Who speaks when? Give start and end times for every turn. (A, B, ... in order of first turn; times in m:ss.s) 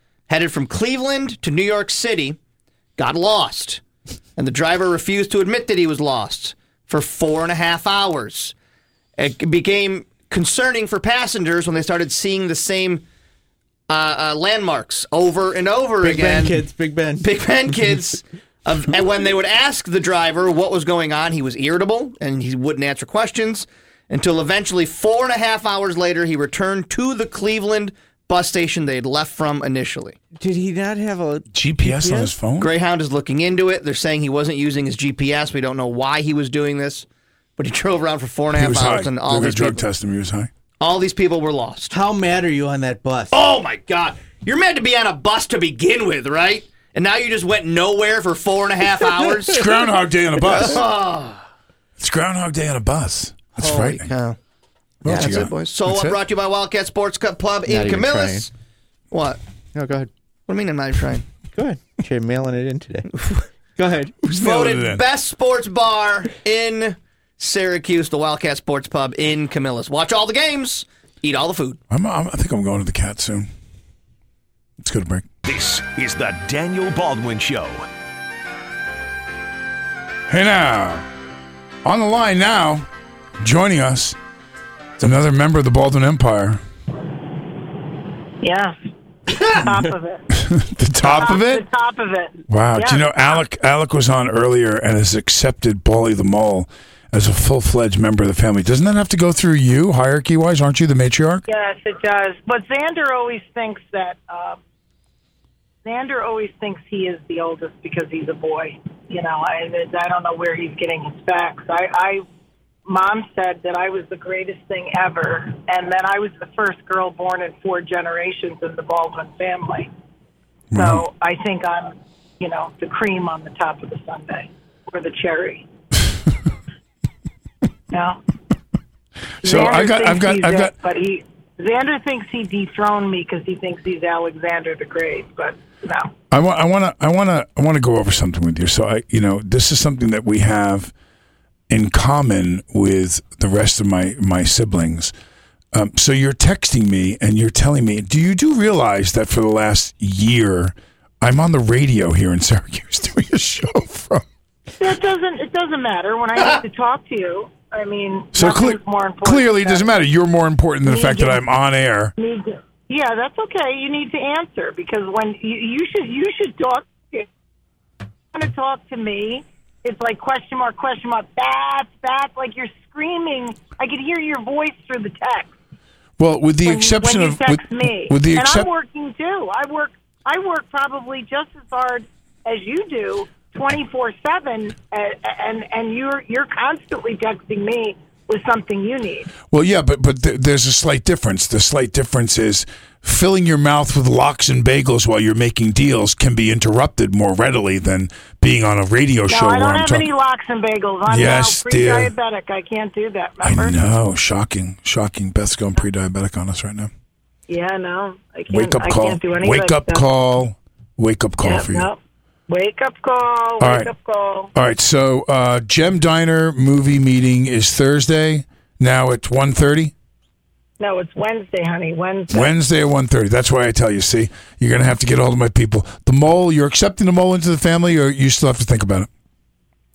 0:00.3-0:02.4 A
0:03.0-0:03.8 A
0:04.4-0:08.5 A
0:09.2-0:13.0 A
0:13.9-0:16.6 A
0:16.0-0:17.3 B
0:17.2-0:30.2 A
0:30.4-0:32.3 B
0:31.5-0:32.7 C
0:32.6-0:37.0 A
0:37.6-0:39.8 A
0:38.5-0:40.5 C
0:40.8-0:41.9 A
0:41.9-0:43.3 B
0:43.3-0:49.7 A
0:49.4-0:50.8 C
0:50.4-0:51.4 A
0:52.0-0:54.1 C
0:53.6-0:54.4 A
0:55.0-0:56.2 C
0:55.0-0:58.5 A
0:57.7-0:58.5 B
0:59.1-0:59.4 A
0:59.7-1:00.1 B
1:00.5-1:01.2 A
1:01.5-1:03.1 B
1:03.1-1:03.4 A
1:03.8-1:04.1 B
1:04.2-1:05.0 C
1:04.3-1:11.8 A
1:11.9-1:13.5 C
1:14.8-1:15.3 C
1:15.4-1:17.9 D
1:20.3-1:21.0 C
1:21.8-1:22.9 C
1:23.4-1:24.2 C
1:25.0-1:26.6 C
1:28.4-1:28.7 E
1:29.5-1:30.3 E
1:30.3-1:31.7 C
1:31.0-1:33.1 E
1:32.5-1:41.4 C
1:41.5-1:44.6 E
1:45.8-1:52.2 E
1:52.9-1:59.9 E
2:00.7-2:01.0 C
2:00.7-2:05.7 E
2:07.9-2:08.2 E
2:09.4-2:10.7 C
2:09.4-2:16.1 E
2:16.3-2:20.9 C
2:21.7-2:25.1 C
2:25.7-2:34.2 C
2:34.8-2:39.9 E
2:38.3-2:42.1 C
2:40.8-2:41.4 E
2:42.2-2:47.3 E
2:48.3-2:55.5 E
2:56.2-2:58.7 C
2:56.6-3:09.3 E
3:09.5-3:20.1 C
3:19.3-3:23.7 E
3:21.1-3:22.1 C
3:23.4-3:26.9 C
3:27.5-3:30.0 E
3:28.5-3:31.9 C
3:31.4-3:34.5 E
3:33.6-3:33.9 C
3:34.5-3:39.9 C
3:40.8-3:42.5 E
3:42.3-3:49.1 C